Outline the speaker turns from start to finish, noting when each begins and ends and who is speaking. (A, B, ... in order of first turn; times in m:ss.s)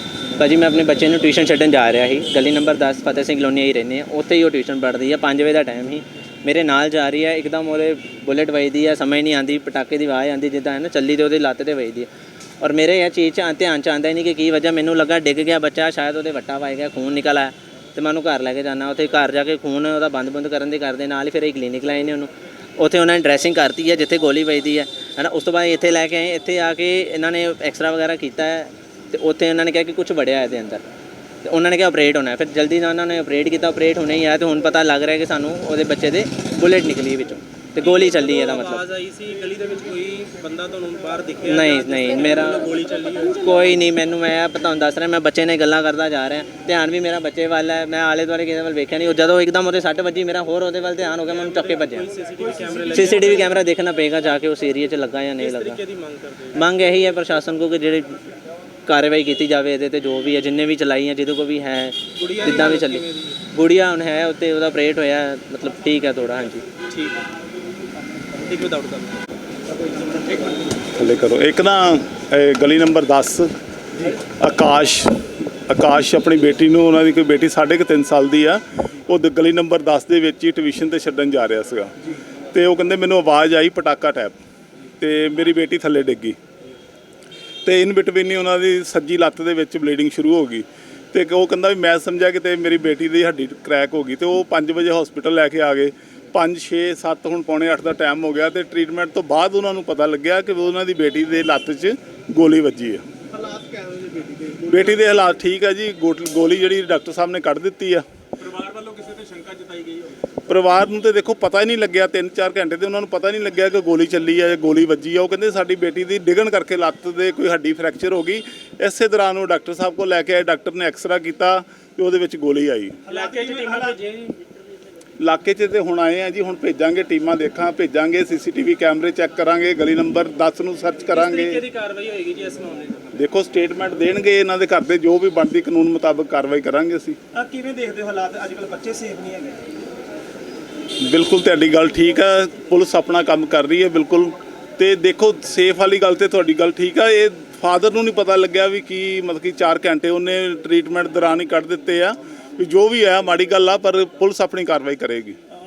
0:00.4-0:12.1 A
0:12.6-0:30.8 A
0:31.4-0:38.9 A
0:37.8-0:43.6 B
0:41.4-0:42.7 A
0:43.4-0:52.1 A
0:51.3-0:53.5 B
0:52.7-0:55.8 A
0:55.4-0:56.6 B
0:56.5-0:58.2 A
0:58.9-1:06.7 A
1:02.2-1:03.4 B
1:06.9-1:07.2 B
1:08.3-1:09.2 B
1:11.0-1:13.5 C
1:14.0-1:21.9 C
1:22.5-1:24.4 C
1:25.0-1:26.4 C
1:27.6-1:43.0 C
1:43.4-1:44.8 B
1:44.6-1:48.0 C
1:48.4-1:50.2 B
1:50.5-2:03.0 C
2:03.1-2:04.4 B
2:05.2-2:11.6 C
2:11.1-2:13.1 B
2:13.2-2:17.2 C
2:17.3-2:19.6 B
2:21.0-2:35.4 C